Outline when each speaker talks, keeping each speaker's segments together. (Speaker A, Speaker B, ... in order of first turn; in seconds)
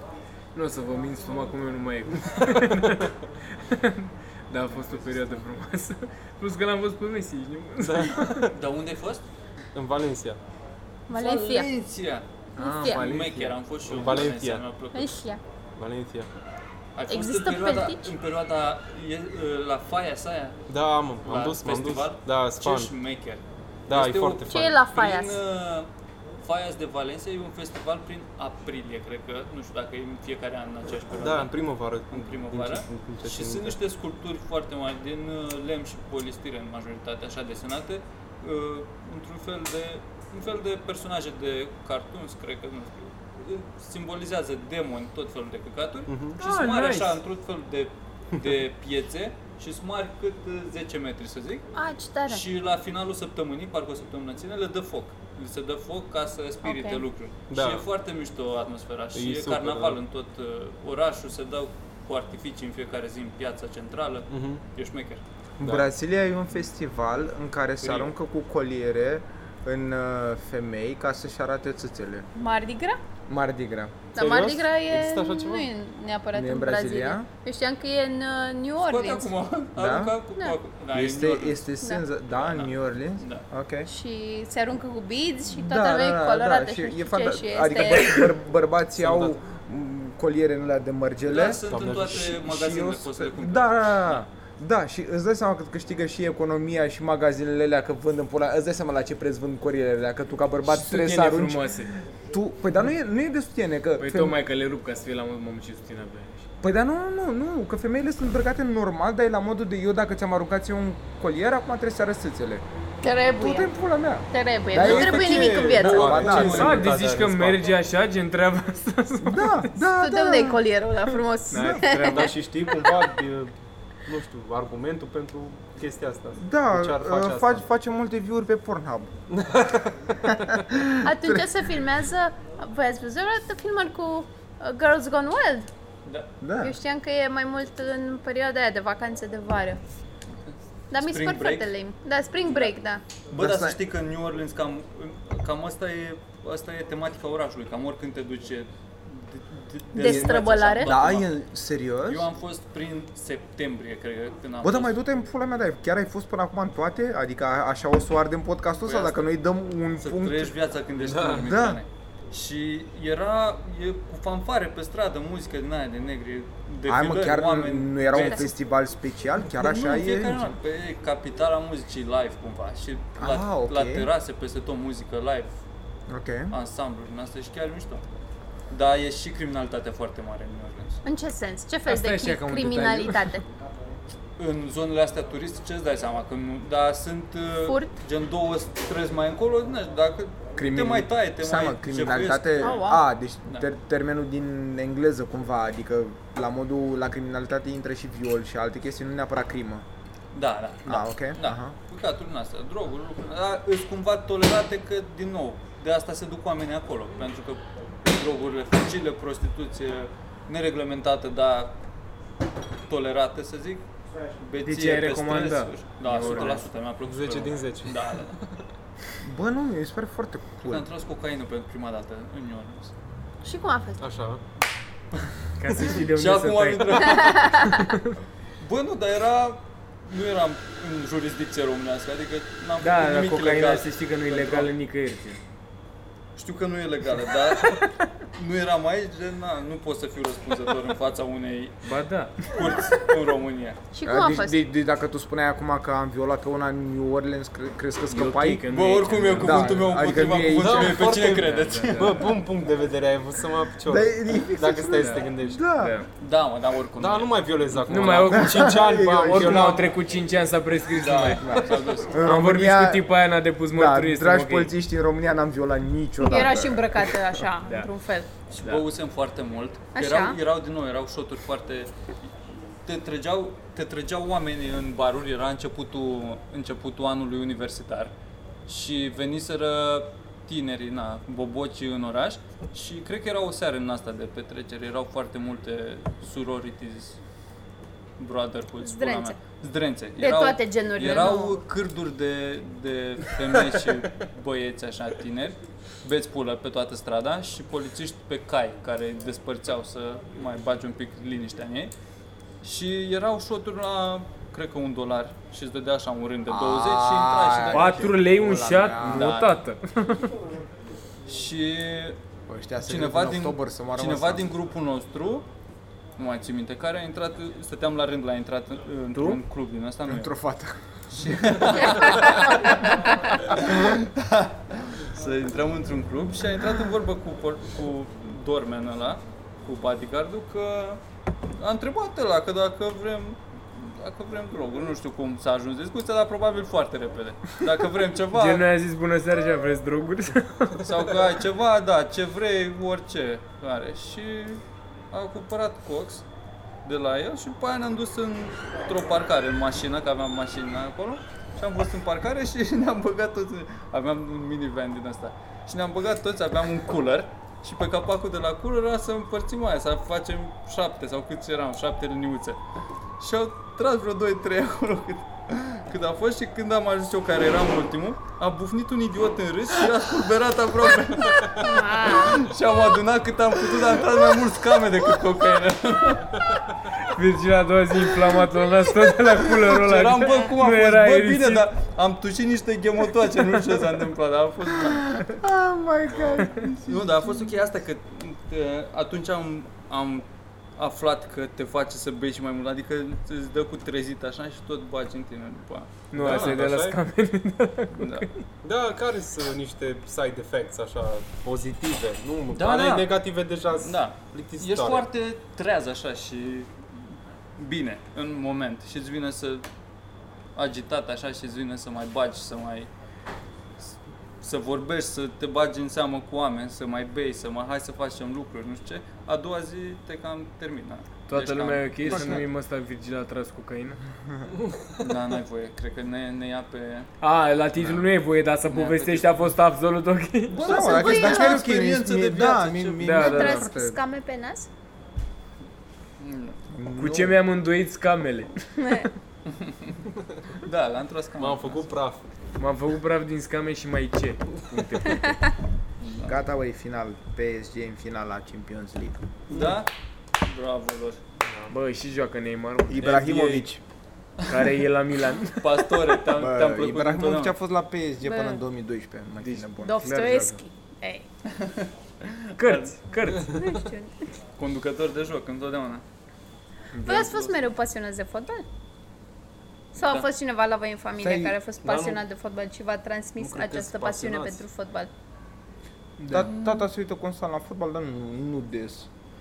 Speaker A: 0.5-8.5, 12.6-13.5, 46.4-47.2, 100.6-101.9, 104.0-106.5, 116.4-119.7, 121.5-122.3, 181.8-183.4, 214.6-216.6, 225.6-228.2, 232.8-235.4, 237.6-238.0, 241.8-242.5, 248.1-249.7, 251.2-252.3, 255.0-256.1, 257.8-264.7, 267.6-267.9, 268.6-268.8, 307.7-310.3, 338.3-340.9, 377.0-381.6, 396.1-398.4, 421.3-424.0, 427.2-430.6, 433.0-433.7, 436.9-438.6, 442.6-445.4, 451.7-453.2, 454.5-456.2, 460.0-460.6, 462.6-463.6, 466.9-467.3, 476.2-476.5
Speaker B: 2.4-3.0, 7.8-8.5, 9.7-10.4, 13.9-14.7, 15.8-16.3, 20.7-22.9, 23.9-24.8, 31.1-33.8, 46.1-46.4, 57.5-57.9, 59.1-60.0, 64.3-64.6, 65.6-65.9, 74.1-75.7, 89.0-89.3, 91.7-92.3, 114.7-117.6, 122.0-123.5, 124.0-127.6, 129.3-130.6, 161.0-161.5, 216.2-216.5, 217.0-218.5, 224.0-224.4, 250.6-255.6, 257.0-259.9, 396.1-397.0, 398.6-405.1, 441.4-442.2, 451.5-451.7, 471.8-472.2, 473.4-474.6
Speaker C: 8.5-9.2, 11.1-12.2, 12.8-15.2, 16.9-20.6, 21.2-25.9, 26.4-31.5, 32.1-51.7, 52.2-65.2, 67.8-68.1, 78.8-81.7, 82.3-83.4, 91.3-94.2, 115.2-116.9, 140.5-141.7, 142.4-142.8, 143.3-151.3, 152.0-155.0, 158.8-159.2, 160.0-168.5, 169.5-175.5, 176.5-178.0, 178.7-181.0, 184.4-192.8, 200.3-211.7, 212.9-213.8, 214.4-218.4, 220.6-222.9, 225.8-227.8, 228.6-234.7, 236.3-241.8, 242.4-243.8, 248.7-252.2, 256.2-257.9, 261.0-262.2, 268.5-272.3, 272.8-278.1, 278.6-287.2, 288.2-301.9, 302.6-308.2, 309.0-309.5, 311.3-312.2, 312.8-315.4, 316.2-320.3, 321.1-331.0, 331.6-338.7, 340.8-346.2, 346.8-362.6, 363.2-376.4, 379.6-385.4, 386.1-390.2, 390.8-396.6, 397.9-398.3, 402.5-403.1, 403.8-406.7, 407.6-409.6, 410.6-412.9, 413.8-422.4, 425.0-427.1, 427.8-428.1, 428.7-429.4, 430.5-433.1, 436.2-436.6, 439.5-440.0, 440.6-441.8, 446.0-446.4, 449.5-449.9, 450.4-451.2, 453.0-453.7, 454.4-454.7, 455.6-457.5, 461.5-462.9, 464.6-466.0, 467.1-467.5, 469.9-470.3
Speaker D: 11.1-11.7, 12.6-13.0, 14.9-15.4, 17.1-18.1, 24.5-25.4, 51.7-52.4, 56.6-57.0, 72.3-73.0, 74.2-79.3, 83.9-88.3, 113.0-113.7, 114.3-116.3, 120.0-122.4, 131.0-135.7, 136.6-139.8, 140.9-143.0, 149.9-150.9, 168.1-168.5, 181.0-183.4, 187.7-187.9, 192.6-193.0, 223.4-224.0, 227.1-227.8, 243.9-244.6, 266.2-268.3, 269.9-270.4, 288.8-289.4, 290.2-291.6, 371.6-372.4, 380.2-380.5, 430.6-431.6, 433.1-434.7, 438.8-439.1, 458.2-458.6, 459.8-461.2, 463.5-464.1, 467.0-468.6, 469.9-475.1
Speaker E: 65.6-72.3, 73.3-74.1, 76.3-77.3, 79.8-80.1, 80.9-83.9, 85.5-91.6, 92.2-101.7, 102.3-104.4, 106.6-112.6, 113.3-116.8, 119.2-120.7, 121.5-121.8, 126.4-129.1, 130.2-131.7, 136.4-136.8, 143.3-143.8, 150.0-152.3, 154.6-160.5, 161.4-161.8, 166.8-170.6, 173.2-174.1, 176.1-176.5, 190.6-199.8, 200.8-201.7, 219.2-220.9, 244.0-248.7, 249.4-251.1, 253.8-255.9, 258.3-259.9, 261.3-263.1, 263.7-267.2, 306.5-309.4, 312.5-314.5, 319.1-319.4, 320.1-322.6, 385.3-387.1, 422.1-422.4, 430.6-434.0, 436.7-437.4, 446.2-449.7, 452.9-453.8, 456.3-460.0, 471.2-471.6, 476.3-479.1